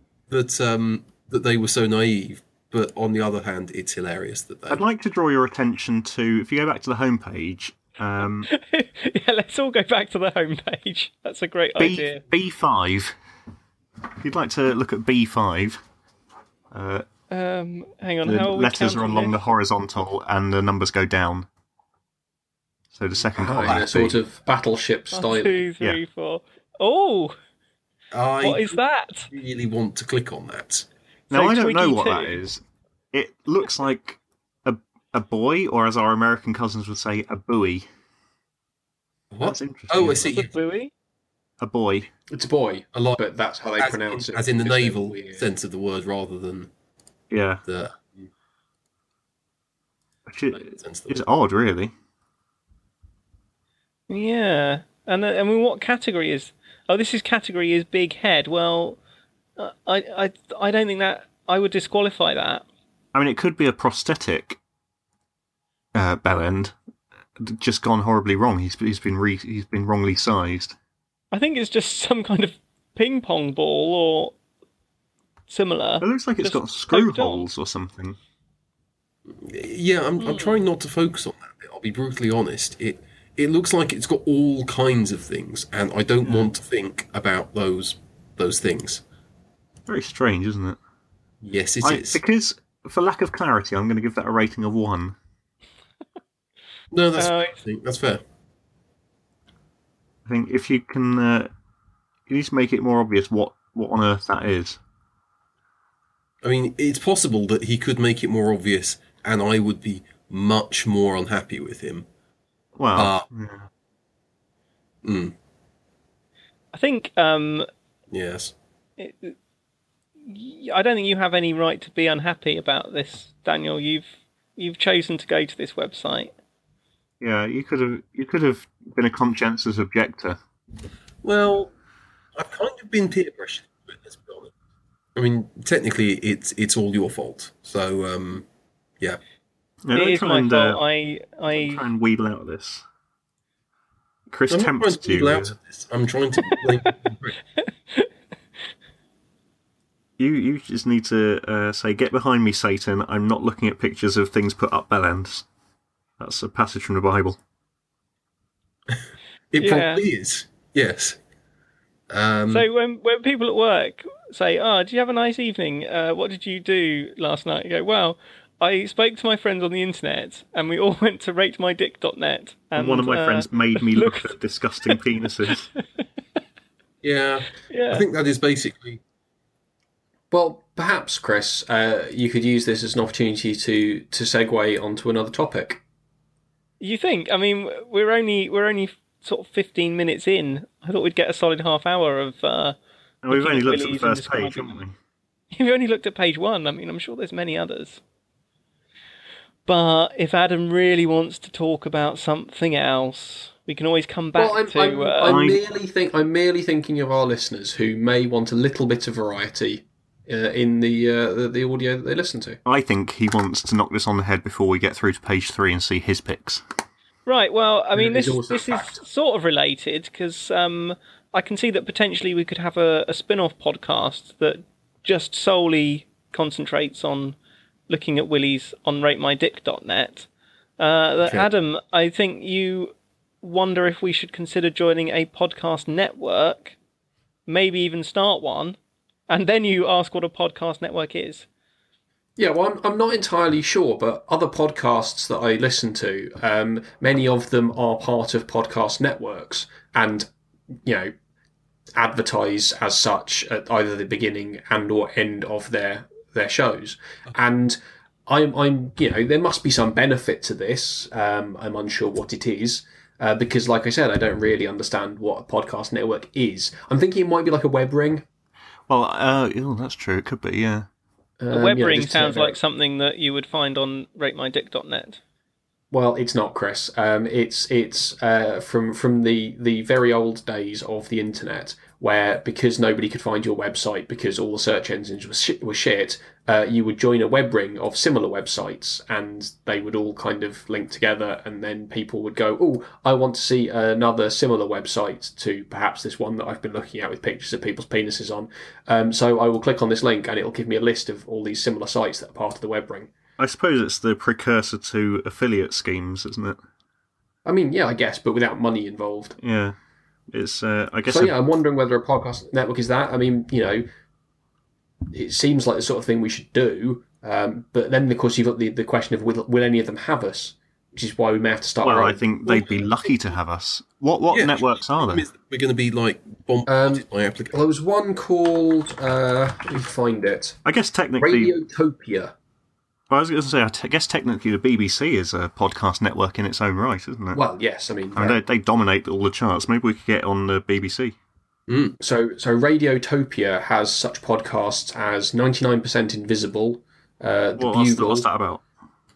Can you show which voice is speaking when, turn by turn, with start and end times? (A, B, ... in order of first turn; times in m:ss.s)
0:00.3-0:04.8 A
0:04.7-0:08.5 B
0:08.5-0:12.2 C
0:11.8-0:13.2 B
0:14.2-0:15.8 B
0:16.7-0:17.1 B
0:17.3-0:19.4 C
0:18.2-0:21.5 B
0:22.9-0:24.2 B
0:23.4-0:25.6 D
0:25.1-0:27.4 C
0:28.1-0:28.8 A
0:28.4-0:29.3 C
0:29.3-0:30.9 A
0:31.3-0:32.6 B
0:31.3-0:32.4 C
0:33.1-0:37.9 B
0:39.3-0:40.5 A
0:39.4-0:40.4 B
0:40.2-0:40.9 C
0:41.6-0:42.1 B
0:42.3-0:45.5 D
0:42.9-0:43.2 A
0:43.8-0:46.7 A
0:47.3-0:47.6 B
0:47.7-0:48.3 A
0:50.3-0:51.9 B
0:50.6-0:51.1 A
0:54.1-0:59.0 C
0:59.6-1:02.6 C
1:03.1-1:04.6 B
1:06.0-1:06.7 B
1:07.4-1:10.8 B
1:11.3-1:14.3 C
1:15.5-1:17.5 C
1:16.0-1:18.2 B
1:19.4-1:29.0 A
1:20.2-1:20.6 C
1:26.2-1:26.5 B
1:29.9-1:30.8 B
1:31.4-1:32.2 A
1:31.8-1:35.2 B
1:36.9-1:38.2 A
1:37.2-1:37.6 C
1:40.3-1:41.5 B
1:42.3-1:44.8 B
1:46.4-1:52.1 A
1:52.8-1:53.7 B
1:53.0-1:53.3 A
1:55.0-1:55.4 A
1:56.7-1:57.7 C
1:58.1-1:58.5 A
1:59.0-1:59.4 C
2:00.2-2:06.3 C
2:07.2-2:10.4 B
2:11.2-2:11.7 A
2:12.4-2:14.5 A
2:15.2-2:18.4 A
2:19.8-2:20.8 B
2:19.9-2:21.8 C
2:21.5-2:22.8 B
2:24.3-2:25.6 B
2:24.5-2:27.4 A
2:27.6-2:28.1 C
2:30.2-2:35.5 B
2:36.2-2:37.4 B
2:39.5-2:41.2 A
2:39.6-2:40.0 C
2:42.1-2:42.7 A
2:42.5-2:54.3 C
2:52.8-2:55.7 B
2:57.0-2:59.0 A
2:57.7-2:58.0 C
3:00.3-3:05.8 D
3:06.8-3:12.8 C
3:13.2-3:15.0 B
3:13.3-3:14.7 C
3:15.5-3:18.0 C
3:19.7-3:25.4 C
3:24.4-3:32.6 D
3:25.2-3:25.6 B
3:32.7-3:36.6 B
3:37.3-3:47.4 C
3:38.0-3:39.0 D
3:47.9-3:50.3 C
3:50.8-3:56.8 C
3:57.5-3:58.8 C
3:59.3-4:01.5 C
4:02.4-4:10.3 D
4:10.8-4:11.1 D
4:12.0-4:28.2 D
4:28.9-4:30.9 B
4:31.4-4:32.6 D
4:31.5-4:35.2 C
4:35.9-5:03.1 D
5:03.4-5:06.6 B
5:07.4-5:09.4 D
5:09.4-5:09.8 B
5:10.3-5:11.4 B
5:11.1-5:13.9 D
5:15.1-5:22.3 D
5:21.8-5:25.2 B
5:24.3-5:27.6 A
5:26.7-5:30.6 D
5:30.6-5:31.5 B
5:31.2-5:32.3 D
5:33.1-5:37.4 B
5:37.3-5:38.4 D
5:38.2-5:41.2 B
5:41.7-5:42.0 A
5:42.0-5:48.3 D
5:47.6-5:48.6 B